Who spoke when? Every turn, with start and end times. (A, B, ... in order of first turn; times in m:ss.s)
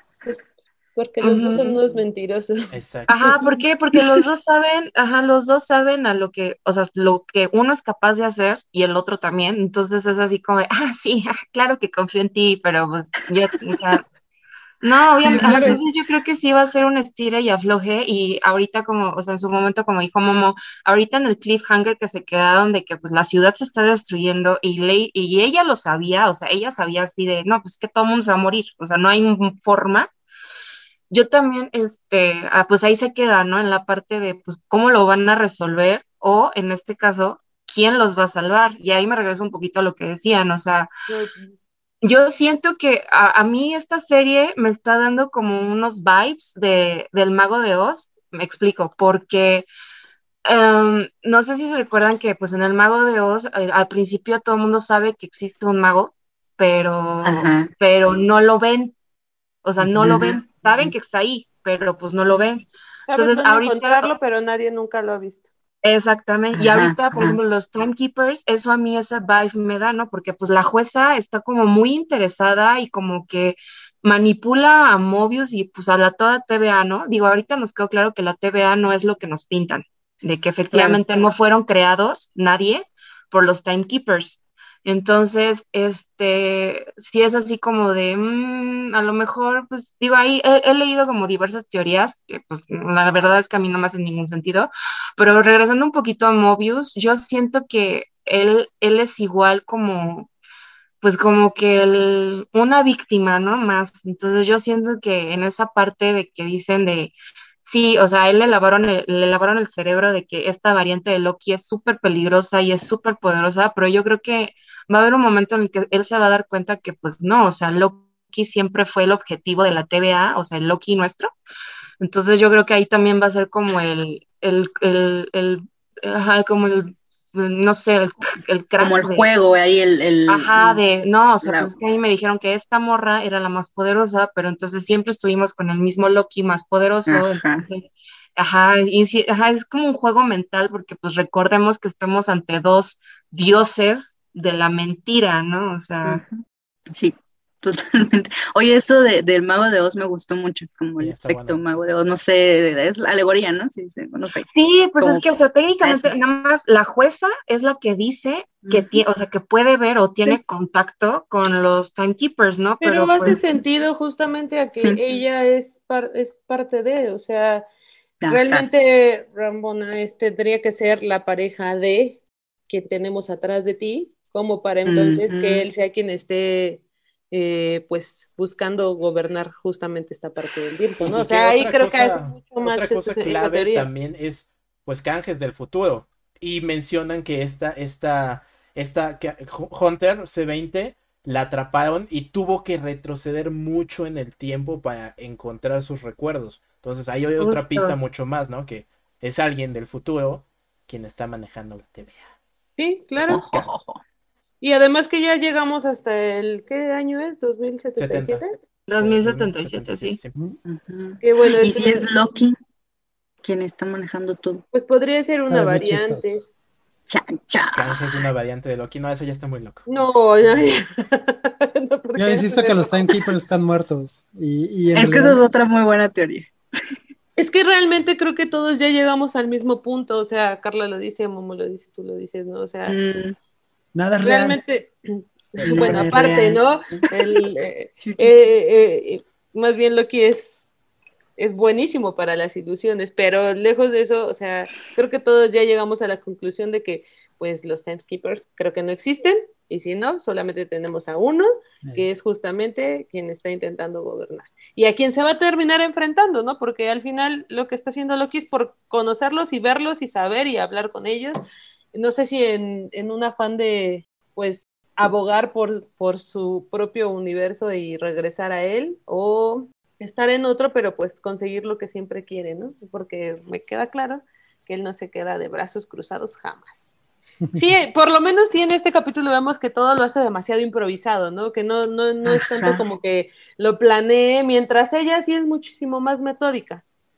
0:00.2-0:03.4 A
0:01.2-0:01.8 B
0:02.7-0:03.2 C
0:03.1-0:14.0 B
0:14.8-0:30.1 B
0:15.1-0:15.8 D
0:15.4-0:15.8 A
0:31.1-0:40.9 B
0:41.1-0:41.5 A
0:42.0-0:49.6 B
0:50.4-0:58.9 B
0:57.2-0:57.7 D
0:59.6-1:04.1 B
0:59.8-1:00.9 D
1:03.0-1:05.4 A
1:05.8-1:40.3 B
1:06.5-1:07.4 D
1:20.7-1:21.0 D
1:41.0-2:01.3 B
2:02.0-2:09.3 B
2:08.8-2:10.8 D
2:10.3-2:26.2 B
2:11.4-2:11.7 D
2:17.0-2:17.6 D
2:26.0-2:34.5 D
2:31.0-2:31.6 C
2:34.5-2:43.4 B
2:35.0-2:35.2 D
2:35.8-2:36.1 D
2:38.6-2:39.0 D
2:42.8-2:47.6 A
2:44.8-2:45.0 D
2:48.2-2:48.7 D
2:48.3-3:03.9 A
2:54.8-2:55.7 D
3:01.0-3:22.2 C
3:17.4-3:18.0 B
3:22.8-3:23.4 A
3:23.2-3:23.7 C
3:23.3-3:24.0 D
3:24.6-3:28.6 A
3:28.0-3:30.3 C
3:28.9-3:30.2 B
3:30.6-3:32.6 D
3:31.2-3:32.1 A
3:33.4-3:34.6 D
3:34.7-3:36.4 A
3:35.5-3:36.4 E
3:37.1-3:38.0 D
3:37.7-3:39.9 C
3:39.9-3:43.1 A
3:42.2-3:45.4 E
3:44.9-3:46.5 D
3:47.4-3:53.0 A
3:52.9-3:53.4 D
3:53.9-3:54.6 E
3:54.2-4:00.6 A
3:55.6-3:56.1 C
3:55.6-3:57.4 D
3:58.0-3:58.3 D
4:01.4-4:21.4 A
4:21.9-4:36.7 A
4:37.5-4:46.8 A
4:42.2-4:42.8 D